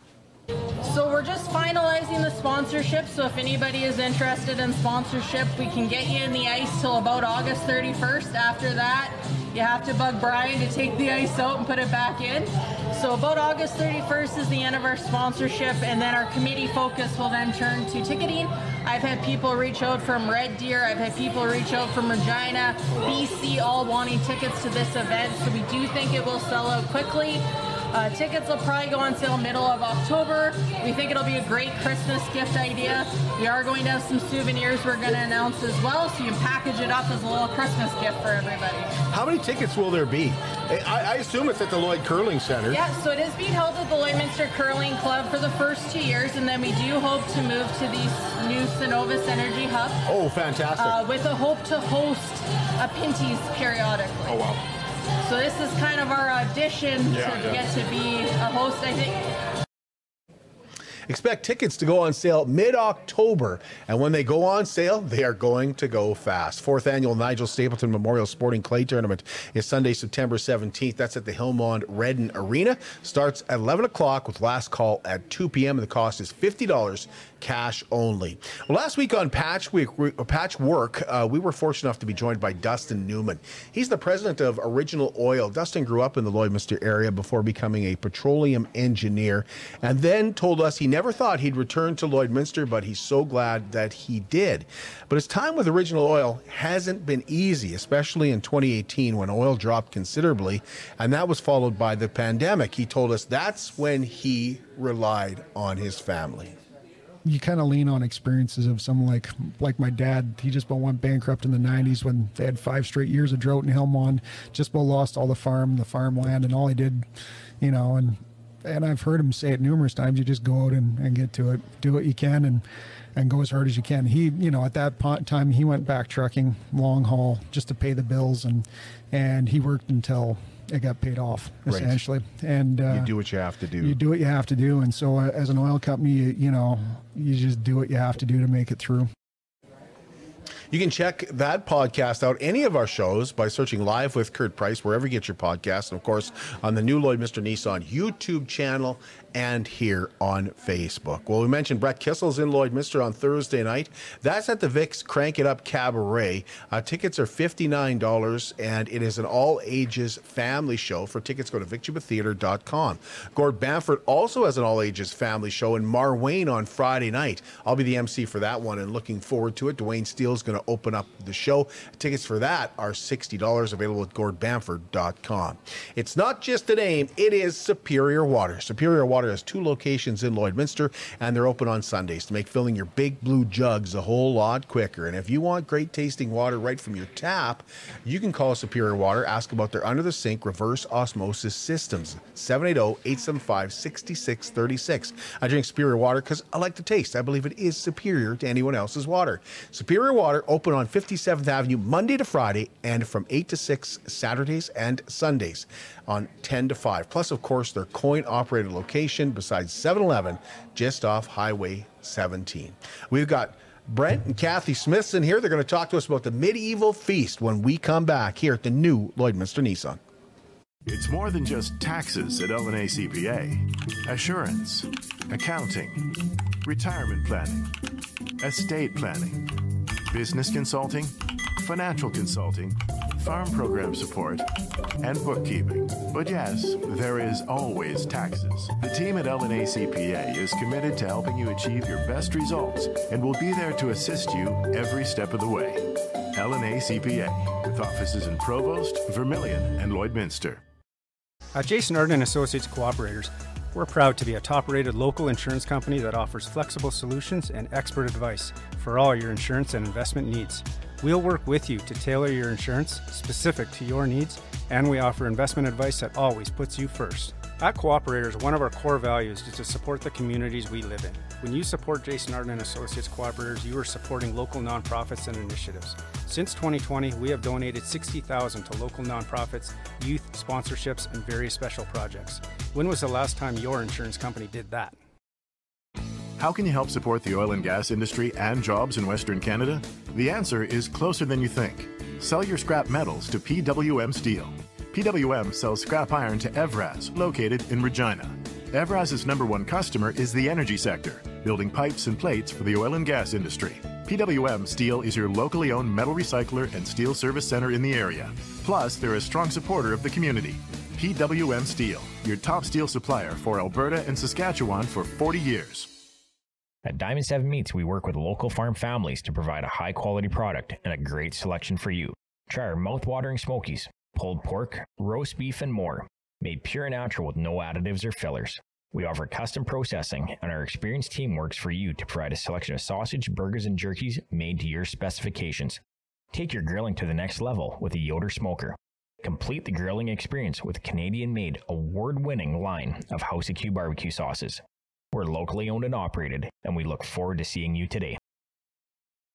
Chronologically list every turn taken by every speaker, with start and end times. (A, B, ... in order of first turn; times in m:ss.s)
0:00.8-0:38.9 A
0:39.1-0:42.8 B
0:42.7-0:50.0 A
0:50.0-0:51.0 B
0:50.8-0:54.4 A
0:55.2-0:59.2 A
1:01.1-1:46.6 B
1:47.2-1:57.0 C
1:57.6-2:02.6 C
2:03.2-2:13.1 C
2:11.6-2:12.0 B
2:12.9-2:14.0 B
2:13.8-2:19.1 C
2:20.7-3:40.0 B
3:40.8-3:47.7 D
3:48.4-3:49.5 D
3:50.1-3:54.5 D
3:55.0-4:10.6 D
4:11.5-4:45.0 E
4:46.4-5:16.0 D
5:16.8-5:35.8 F
5:36.3-5:44.6 F
5:45.1-5:48.2 F